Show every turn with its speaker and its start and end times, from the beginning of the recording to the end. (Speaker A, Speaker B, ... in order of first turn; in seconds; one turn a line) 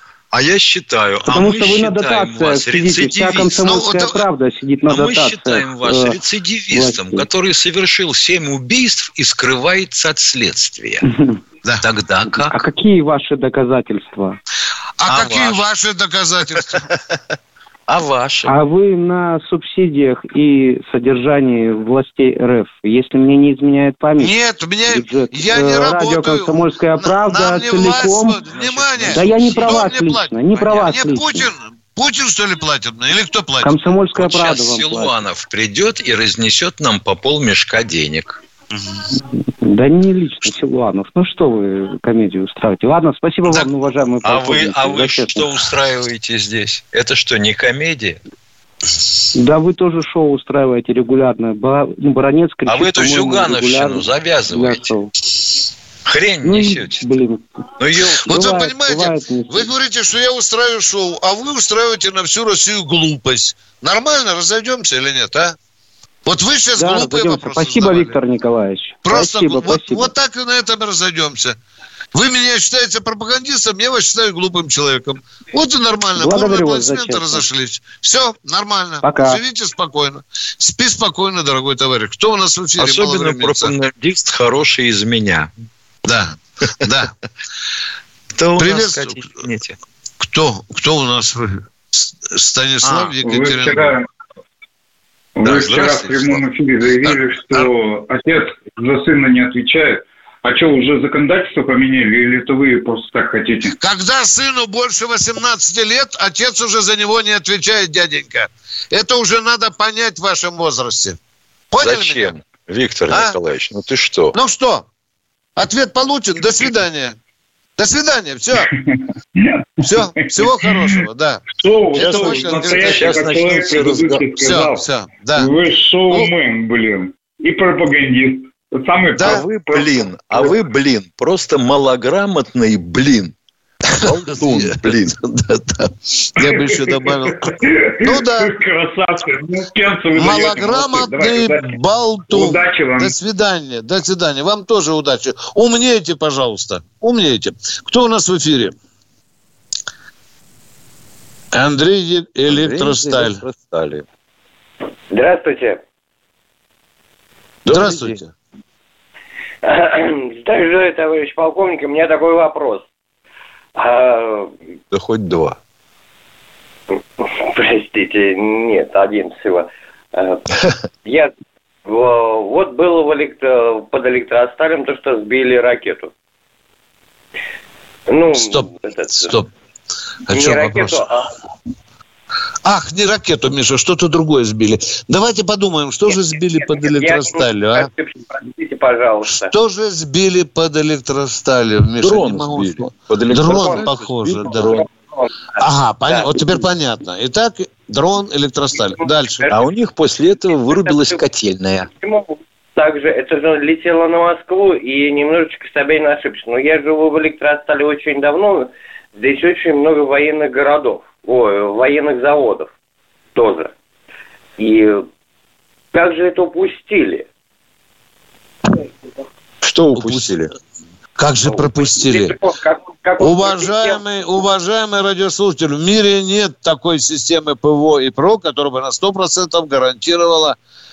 Speaker A: 0.3-3.7
Speaker B: 1.3-6.2
Speaker C: 3.6-4.2
Speaker A: 4.9-11.0
Speaker B: 6.7-7.2
Speaker A: 11.8-12.6
Speaker B: 12.3-14.4
Speaker C: 15.0-16.8
Speaker A: 15.1-15.6
Speaker A: 17.9-18.5
Speaker B: 18.5-24.3
Speaker C: 24.2-33.8
Speaker B: 24.9-28.4
Speaker A: 28.5-29.9
Speaker B: 29.1-31.5
Speaker A: 30.5-30.9
Speaker B: 33.6-35.1
Speaker A: 34.1-38.4
Speaker B: 39.6-45.6
Speaker A: 44.2-48.2
Speaker B: 49.3-55.1
Speaker A: 52.6-54.9
Speaker A: 56.0-57.0
Speaker B: 56.4-57.4
Speaker A: 57.8-58.3
Speaker B: 58.2-59.7
Speaker C: 58.3-65.5
Speaker C: 66.2-68.2
Speaker B: 66.8-70.1
Speaker C: 69.0-71.5
Speaker C: 72.1-83.7
Speaker B: 76.2-77.5
Speaker B: 79.0-79.4
Speaker A: 82.8-85.5
Speaker C: 86.0-87.1
Speaker A: 88.3-89.8
Speaker C: 88.6-89.2
Speaker C: 90.2-91.6
Speaker C: 92.3-94.0
Speaker A: 92.8-93.1
Speaker D: 93.2-94.0
Speaker D: 95.4-103.8
Speaker A: 95.4-96.4
Speaker C: 97.1-97.7
Speaker C: 103.7-111.2
Speaker C: 111.7-112.3
Speaker A: 111.8-114.3
Speaker C: 114.3-114.8
Speaker C: 115.6-117.1
Speaker C: 117.8-118.7
Speaker C: 119.8-123.4
Speaker D: 119.9-130.6
Speaker A: 122.0-124.3
Speaker C: 124.4-125.5
Speaker C: 129.1-129.4
Speaker A: 129.2-133.3
Speaker C: 133.9-134.9
Speaker A: 133.9-135.9
Speaker C: 136.4-138.5
Speaker D: 136.4-141.7
Speaker C: 140.1-148.7
Speaker D: 142.3-143.1
Speaker C: 151.5-153.4
Speaker A: 152.5-154.1
Speaker E: 155.1-155.8
Speaker A: 157.6-158.2
Speaker C: 157.7-158.3
Speaker E: 159.6-162.8
Speaker E: 163.8-164.6
Speaker A: 164.9-165.6
Speaker E: 167.2-170.4
Speaker E: 171.0-171.3
Speaker E: 171.8-176.1
Speaker E: 178.1-179.3
Speaker C: 178.3-179.5
Speaker C: 180.3-181.0
Speaker E: 180.3-181.3
Speaker C: 182.6-187.9
Speaker E: 186.1-189.5
Speaker C: 189.4-194.8
Speaker A: 192.0-194.8
Speaker E: 193.5-196.6
Speaker C: 195.6-199.4
Speaker E: 198.8-199.6
Speaker A: 199.5-201.9
Speaker E: 200.5-201.2
Speaker E: 201.9-212.7
Speaker E: 213.3-213.7
Speaker E: 214.6-215.1
Speaker E: 215.9-217.2
Speaker A: 219.6-220.5
Speaker C: 219.9-220.3
Speaker C: 221.2-222.3
Speaker E: 221.5-224.0
Speaker C: 223.2-230.6